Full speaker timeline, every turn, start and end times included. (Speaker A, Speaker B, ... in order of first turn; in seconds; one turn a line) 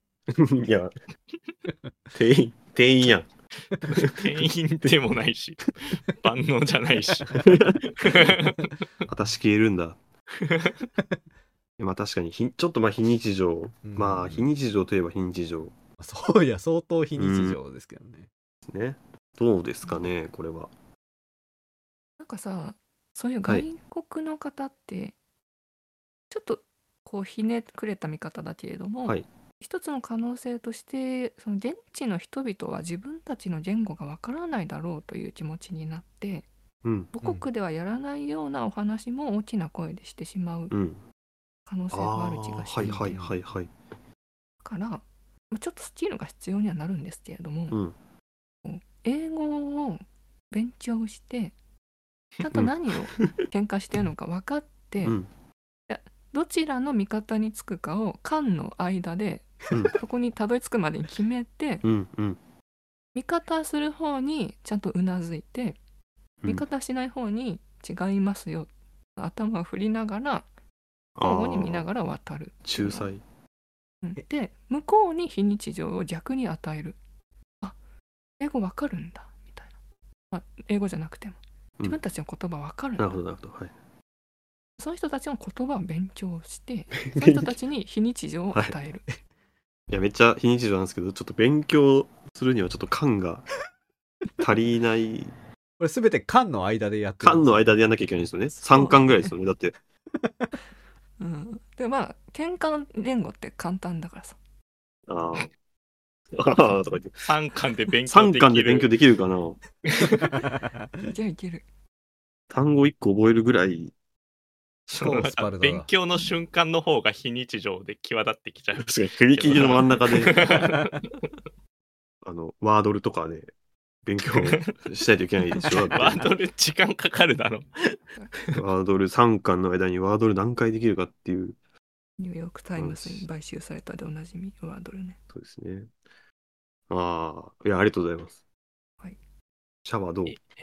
Speaker A: 0.3-0.9
Speaker A: 2.1-3.3
Speaker B: 3.8-8.7
Speaker A: 7.4-8.3
Speaker A: 9.1-10.0
Speaker B: 10.4-10.8
Speaker A: 11.8-15.7
Speaker C: 13.8-14.5
Speaker C: 16.0-18.3
Speaker A: 17.2-17.6
Speaker A: 18.7-20.7
Speaker D: 22.2-25.1
Speaker D: 26.3-36.5
Speaker A: 36.8-37.1
Speaker D: 37.1-40.7
Speaker A: 40.7-41.0
Speaker D: 41.7-43.1
Speaker A: 41.9-43.7
Speaker C: 42.8-43.4
Speaker D: 44.6-47.8
Speaker D: 48.6-51.5
Speaker D: 52.4-55.2
Speaker A: 52.5-53.3
Speaker A: 55.0-55.3
Speaker D: 55.9-61.9
Speaker A: 59.7-60.0
Speaker A: 61.8-62.4
Speaker D: 63.1-65.8
Speaker D: 66.5-70.5
Speaker A: 71.2-71.9
Speaker D: 71.2-73.1
Speaker A: 72.6-73.2
Speaker D: 74.0-77.0
Speaker D: 78.4-79.7
Speaker D: 80.3-83.2
Speaker A: 83.0-83.7
Speaker D: 84.8-89.0
Speaker A: 87.0-87.5
Speaker A: 89.9-93.5
Speaker A: 94.4-95.3
Speaker C: 95.8-97.6
Speaker A: 97.2-99.7
Speaker D: 98.7-99.2
Speaker C: 100.2-100.5
Speaker D: 101.2-104.3
Speaker A: 105.1-105.5
Speaker A: 106.3-107.3
Speaker B: 107.2-108.9
Speaker A: 108.1-109.6
Speaker B: 109.9-110.3
Speaker C: 110.0-111.1
Speaker D: 111.1-111.6
Speaker A: 112.5-113.9
Speaker B: 114.9-121.2
Speaker C: 114.9-115.9
Speaker A: 118.8-120.5
Speaker A: 122.2-123.5
Speaker A: 124.0-126.3
Speaker B: 124.3-124.7
Speaker B: 125.6-128.5
Speaker A: 128.5-131.6
Speaker D: 132.2-135.2
Speaker A: 132.8-133.3
Speaker A: 135.3-135.9
Speaker A: 136.9-138.4
Speaker A: 139.8-140.3